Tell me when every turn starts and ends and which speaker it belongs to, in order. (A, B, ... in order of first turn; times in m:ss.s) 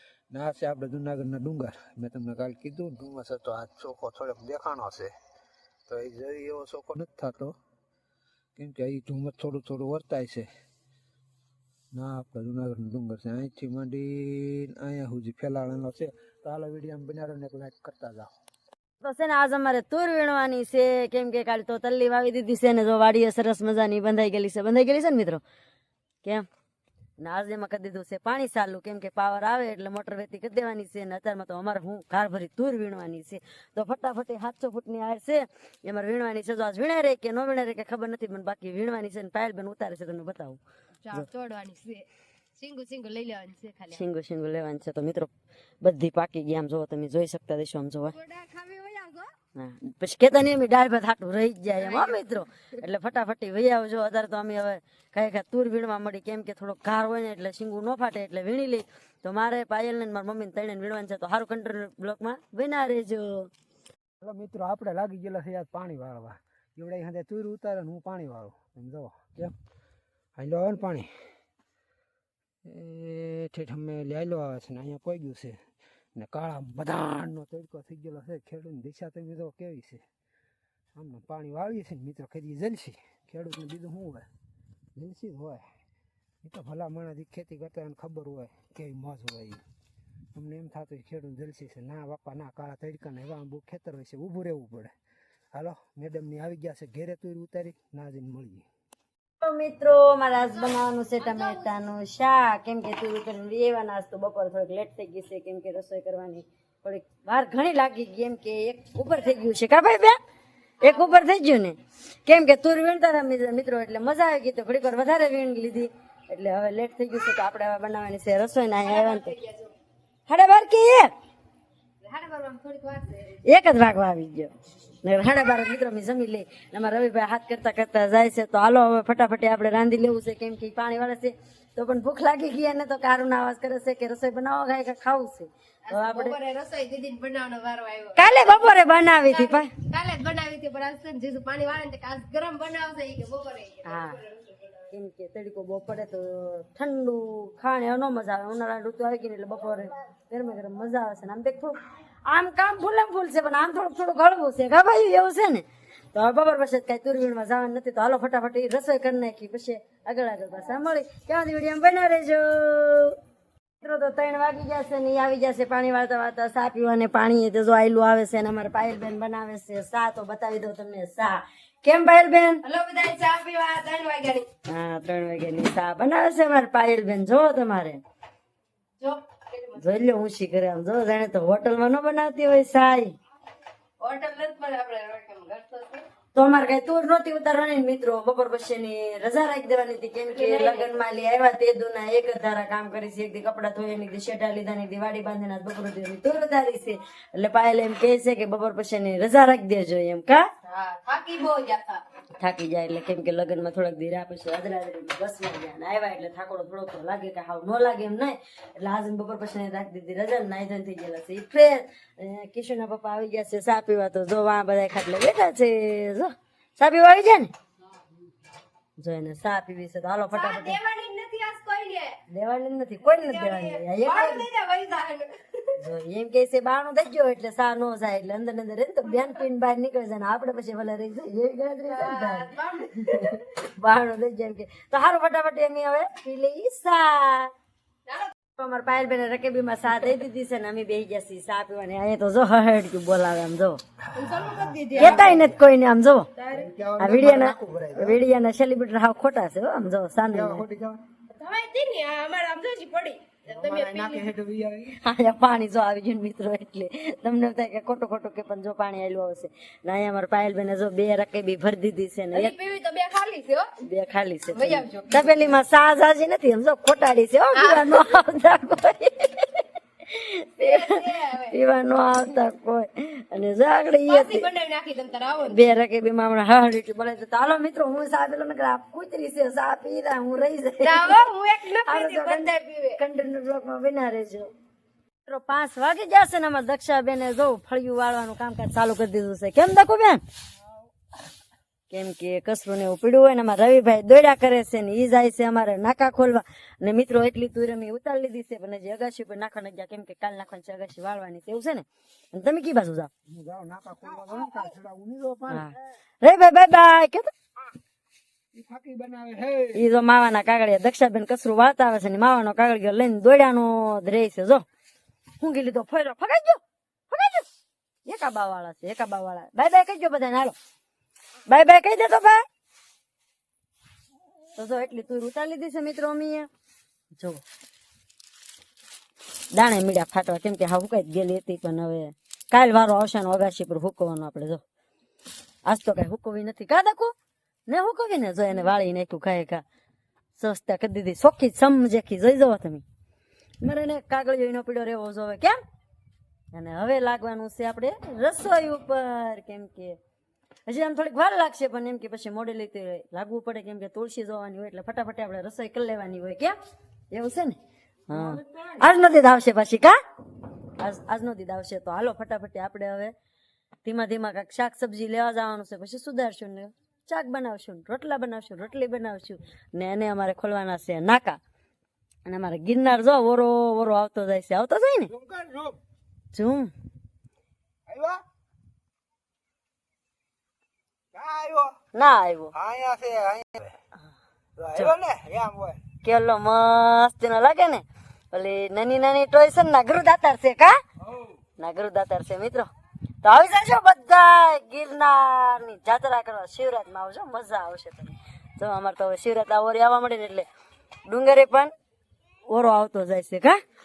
0:00.3-0:05.1 A
0:05.9-0:07.6 A
0:08.6-0:10.5 A
0:11.9-0:18.3 A
0:19.0-0:25.4 B
0:27.2-0:40.6 B
0:41.0-0:44.0 C
0:43.9-0:45.3 B
0:45.8-0:48.2 B
0:48.1-0:49.4 C
0:49.6-1:03.5 B
0:51.8-0:52.2 C
1:04.2-1:09.5 A
1:10.4-1:11.1 A
1:12.6-1:15.6 A
1:16.2-1:20.0 A
1:21.0-1:24.3 A
1:25.0-1:25.7 A
1:26.4-1:29.6 A
1:30.3-1:34.9 A
1:35.5-1:38.7 A
1:39.4-1:50.2 B
1:41.2-1:41.6 C
1:50.8-1:51.3 C
1:50.8-1:59.4 B
1:58.8-1:59.7 C
2:00.3-2:01.1 B
2:02.0-2:03.4 C
2:03.4-2:04.5 B
2:05.0-2:16.4 B
2:15.9-2:18.7 C
2:18.2-2:19.7 B
2:19.3-2:24.8 C
2:23.8-2:24.2 B
2:24.9-2:43.2 B
2:43.8-2:52.6 B
2:52.6-2:54.5 C
2:54.7-2:58.0 B
2:59.0-2:59.8 C
2:59.8-3:03.1 B
3:04.0-3:06.0 C
3:06.4-3:20.4 B
3:10.3-3:10.9 C
3:20.6-3:22.0 C
3:22.4-3:37.5 B
3:39.0-3:40.8 B
3:40.3-3:42.2 C
3:42.3-3:44.5 B
3:43.0-3:45.8 C
3:45.8-3:57.5 B
3:51.9-3:53.4 C
3:58.6-4:03.8 B
4:04.0-4:05.6 A
4:04.2-4:05.4 C
4:05.0-4:06.3 B
4:06.4-4:06.7 C
4:06.5-4:08.2 A
4:07.0-4:10.6 B
4:10.3-4:11.0 A
4:11.3-4:14.3 C
4:13.5-4:15.0 A
4:15.0-4:22.5 B
4:22.3-4:23.7 C
4:23.8-4:34.5 B
4:24.5-4:25.6 C
4:27.5-4:28.1 C
4:30.6-4:31.6 C
4:34.1-4:35.7 C
4:35.5-4:41.3 B
4:40.8-4:43.0 C
4:41.8-4:44.5 B
4:45.3-4:50.2 B
4:51.9-5:03.1 B
5:03.3-5:05.7 A
5:05.5-5:07.3 B
5:08.5-5:09.8 A
5:09.8-5:14.6 B
5:15.4-5:17.5 B
5:18.1-5:20.6 B
5:21.5-5:22.4 B
5:24.6-5:26.5 B
5:27.2-5:27.4 B
5:29.5-5:34.6 B
5:35.7-5:37.1 B
5:37.7-5:39.6 B
5:40.4-5:42.8 B
5:43.6-5:45.6 B
5:46.5-5:50.0 B
5:50.7-5:56.6 B
5:57.1-5:57.6 B
5:58.1-5:59.9 B
5:58.2-5:58.6 A
6:00.8-6:03.1 B
6:03.8-6:11.4 B
6:12.3-6:15.1 B
6:15.1-6:15.8 A
6:16.3-6:16.7 B
6:17.9-6:18.2 A
6:21.1-6:21.7 A
6:21.9-6:22.5 B
6:22.6-6:23.8 A
6:24.6-6:25.8 A
6:26.0-6:30.8 B
6:31.6-6:32.7 B
6:33.2-6:40.4 B
6:41.1-6:41.7 B
6:42.5-6:43.6 B